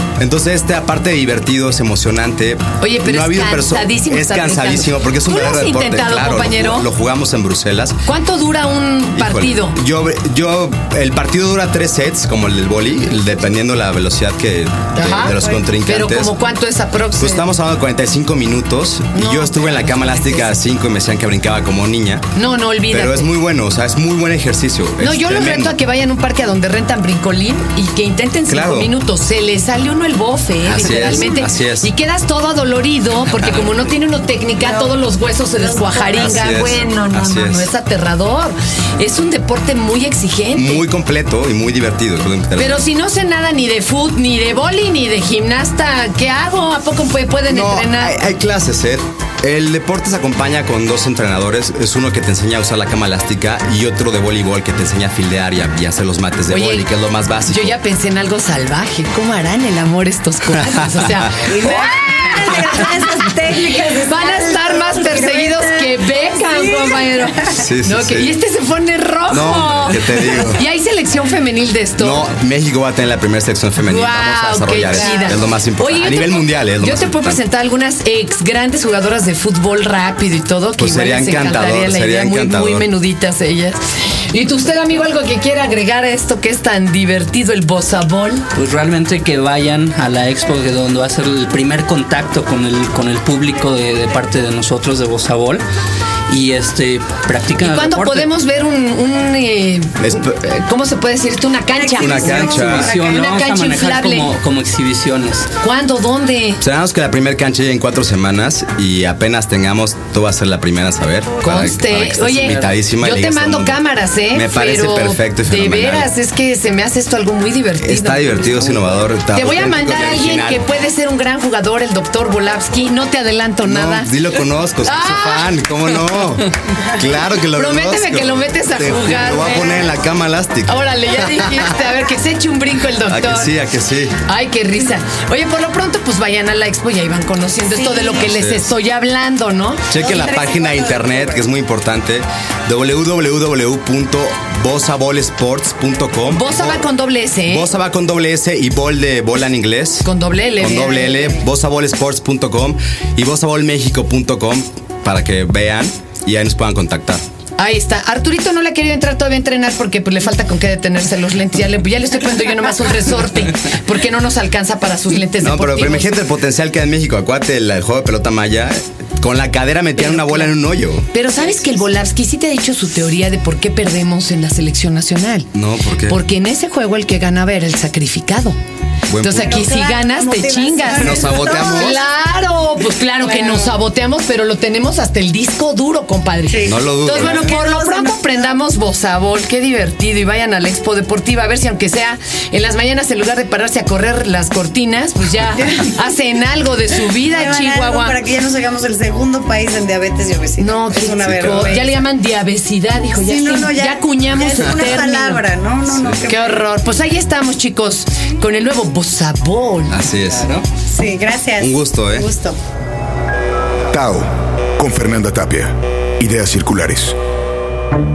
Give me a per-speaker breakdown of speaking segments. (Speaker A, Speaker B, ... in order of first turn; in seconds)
Speaker A: 0.2-8.0, 9.2-16.3, 17.2-22.2, 22.9-25.8, 28.5-28.9, 30.6-31.9, 36.2-37.7, 40.6-42.8, 47.5-57.8, 67.5-68.3, 69.3-70.6, 72.0-77.4, 80.8-82.9, 100.0-100.3, 101.9-103.0, 106.6-113.8, 114.3-116.1, 117.8-120.6, 123.7-131.7, 133.1-134.2, 138.3-138.7, 139.9-146.8, 147.5-150.1, 150.6-157.2, 165.4-171.1, 175.6-176.2, 179.1-179.6, 180.9-182.0, 186.7-187.5, 201.2-201.8, 205.9-206.2, 209.9-210.5, 211.6-212.3
Speaker B: 2.8-6.9, 8.1-9.8, 14.9-17.5, 19.1-20.6, 22.4-23.3, 25.0-40.8, 42.6-48.2, 56.5-56.9, 57.5-63.3, 64.0-72.2, 73.8-88.5, 97.6-104.3, 105.6-106.6, 111.4-118.8, 119.3-124.1, 124.8-125.5, 126.9-129.9, 130.7-133.5, 134.2-139.9, 146.3-147.7, 150.0-151.4, 157.6-166.2, 170.0-170.5, 171.1-175.5, 176.1-178.6, 179.2-198.2, 200.6-205.4, 206.3-210.0
Speaker C: 34.6-34.9, 35.5-36.6, 61.5-67.5, 75.0-75.3, 101.8-102.5, 137.7-138.3, 140.0-141.5, 179.4-182.0, 183.2-183.7, 186.5-188.3, 197.3-201.9, 203.1-206.7, 210.9-212.6
Speaker D: 88.5-95.6, 96.3-98.3, 102.2-105.5, 210.3-210.7
Speaker E: 213.9-217.2